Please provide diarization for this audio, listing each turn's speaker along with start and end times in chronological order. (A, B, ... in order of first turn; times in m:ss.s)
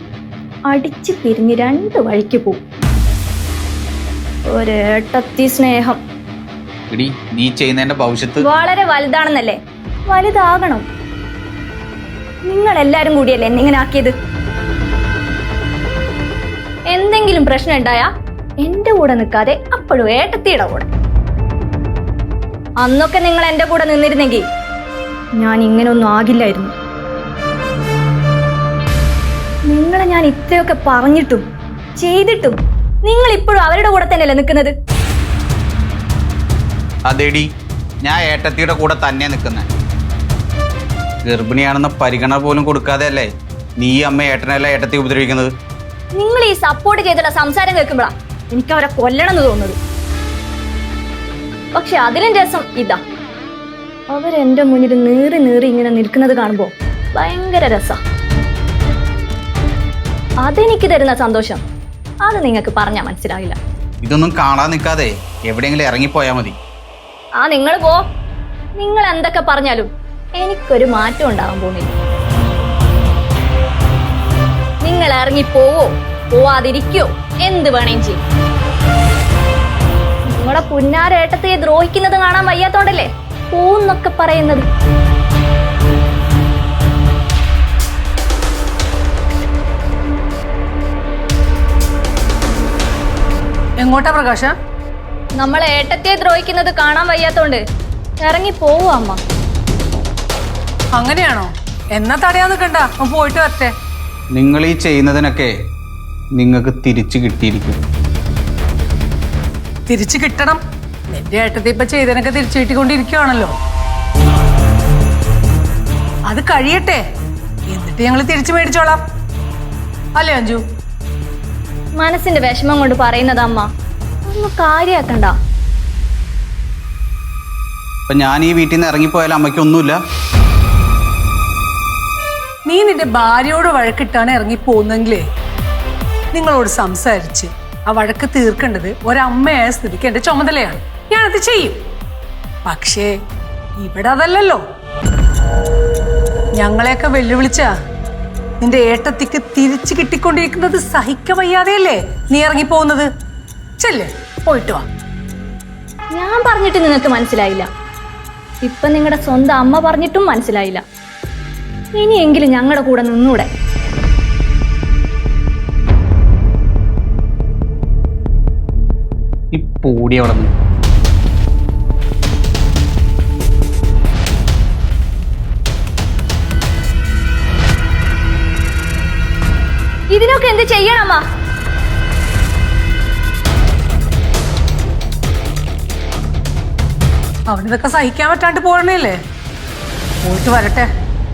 0:00.7-0:02.6 A
0:04.5-0:06.0 A
0:06.9-0:08.4 B
0:08.4-0:10.8 A
0:12.4-0:14.1 A
0:16.9-0:18.1 A
0:18.6-0:20.9 A
0:22.8-0:24.5 A
0:25.4-0:26.7 A
0:29.7-0:31.4 A
0:32.0-0:34.7 A
0:37.1-0:37.5 B
0:38.0-0:39.6 B
0:41.2-0:43.3 B
0:43.8-0:45.5 B
0:46.1-0:49.8 A
0:51.7-0:53.0 A
0:54.1-0:58.0 A
1:00.4-1:01.6 A
1:02.2-1:03.6 A
1:04.0-1:06.5 B
1:07.4-1:08.0 A
1:08.8-1:11.9 A
1:14.8-1:18.2 A
1:20.3-1:24.6 A
1:33.8-1:34.5 C
1:35.4-1:37.6 A
1:38.2-1:39.2 A
1:40.9-1:43.7 C
1:44.3-1:45.5 B
1:46.4-1:47.8 B
1:49.9-1:53.5 C
1:56.3-1:57.0 C
1:57.7-1:59.0 C
2:00.2-2:00.6 C
2:02.0-2:03.7 A
2:04.2-2:05.4 A
2:08.1-2:10.0 B
2:12.7-2:15.2 C
2:16.3-2:21.8 C
2:22.6-2:23.1 C
2:23.8-2:24.6 C
2:26.6-2:27.7 C
2:28.6-2:33.1 C
2:33.8-2:34.8 C
2:36.1-2:37.7 A
2:38.6-2:40.8 A
2:41.9-2:43.5 A
2:49.5-2:50.5 B
3:00.1-3:01.2 A
3:07.5-3:09.2 C
3:10.2-3:10.9 C